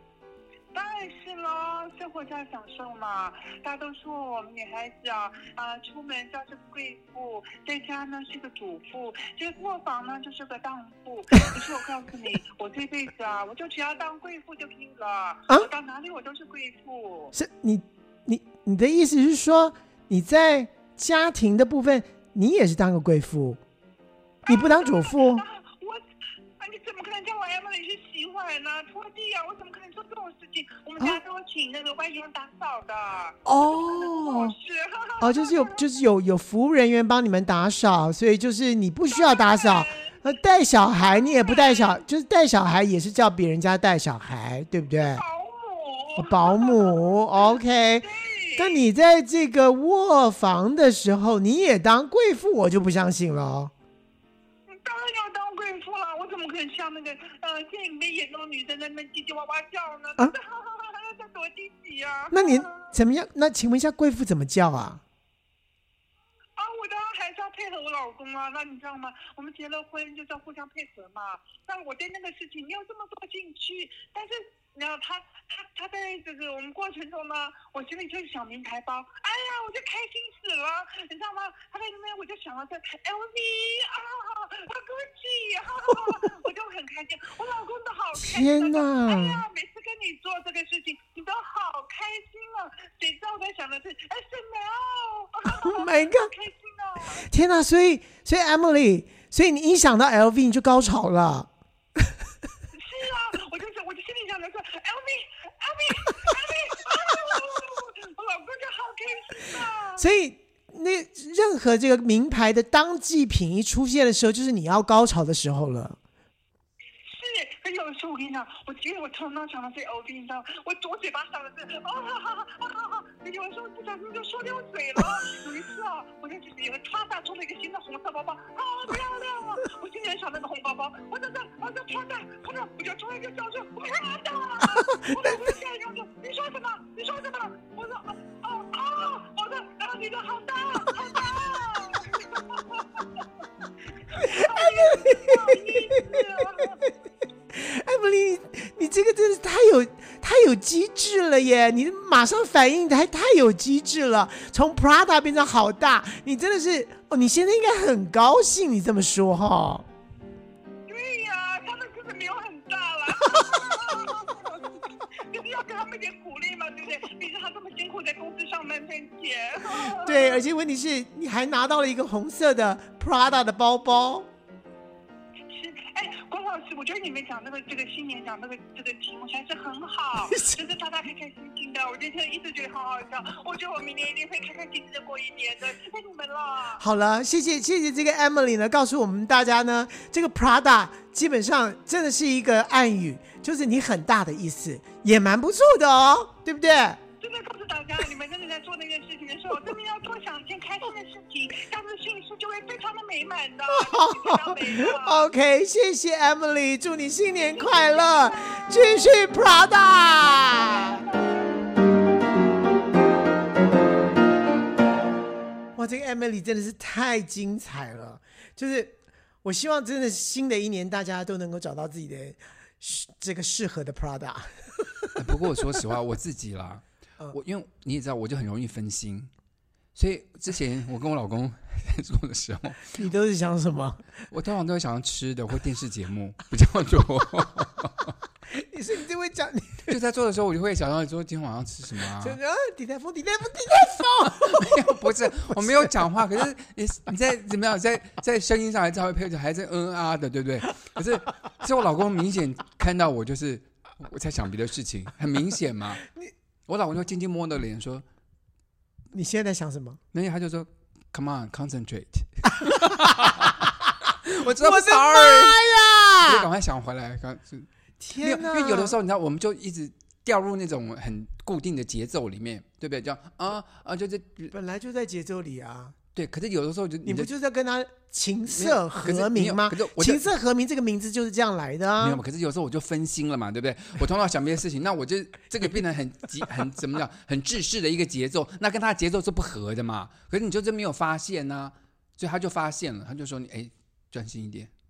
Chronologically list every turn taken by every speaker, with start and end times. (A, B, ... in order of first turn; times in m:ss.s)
0:00.7-0:17.3 A
0:17.3-0:23.6 B
0:24.5-0:26.0 A
0:24.5-0:25.4 B
0:26.6-0:35.8 A
0:33.4-0:34.6 B
0:35.2-0:45.2 B
0:39.1-0:40.2 A
0:41.2-0:42.0 A
0:45.1-0:48.8 A
0:46.2-0:53.7 B
0:54.7-1:02.9 A
1:02.3-1:05.0 B
1:06.6-1:37.3 A
1:28.2-1:29.4 B
1:35.5-1:36.3 B
1:37.2-1:41.5 B
1:42.7-1:50.0 A
1:50.0-1:56.0 B
1:57.1-2:23.1 A
2:14.8-2:15.3 B
2:24.1-2:26.8 A
2:24.2-2:26.2 B
2:27.5-2:39.9 B
2:40.9-2:50.4 A
2:49.7-2:54.3 B
2:55.5-3:06.8 A
3:00.2-3:00.6 B
3:06.8-3:17.0 B
3:17.2-3:25.3 A
3:23.7-3:31.0 B
3:27.6-3:28.6 A
3:30.5-3:31.6 A
3:35.8-3:45.8 B
3:45.2-3:49.3 C
3:50.0-3:53.0 C
3:52.9-3:54.1 B
3:54.3-3:58.1 C
3:58.5-4:00.0 B
3:59.9-4:02.4 C
4:02.2-4:06.0 B
4:04.2-4:16.1 C
4:16.7-4:18.0 C
4:19.1-4:20.0 B
4:20.1-4:25.7 C
4:22.7-4:23.5 B
4:24.4-4:26.5 B
4:26.2-4:27.7 C
4:28.0-4:29.0 B
4:28.2-4:34.5 C
4:34.5-4:36.0 B
4:36.1-4:37.3 C
4:37.0-4:42.2 B
4:38.5-4:40.3 C
4:42.0-4:54.7 C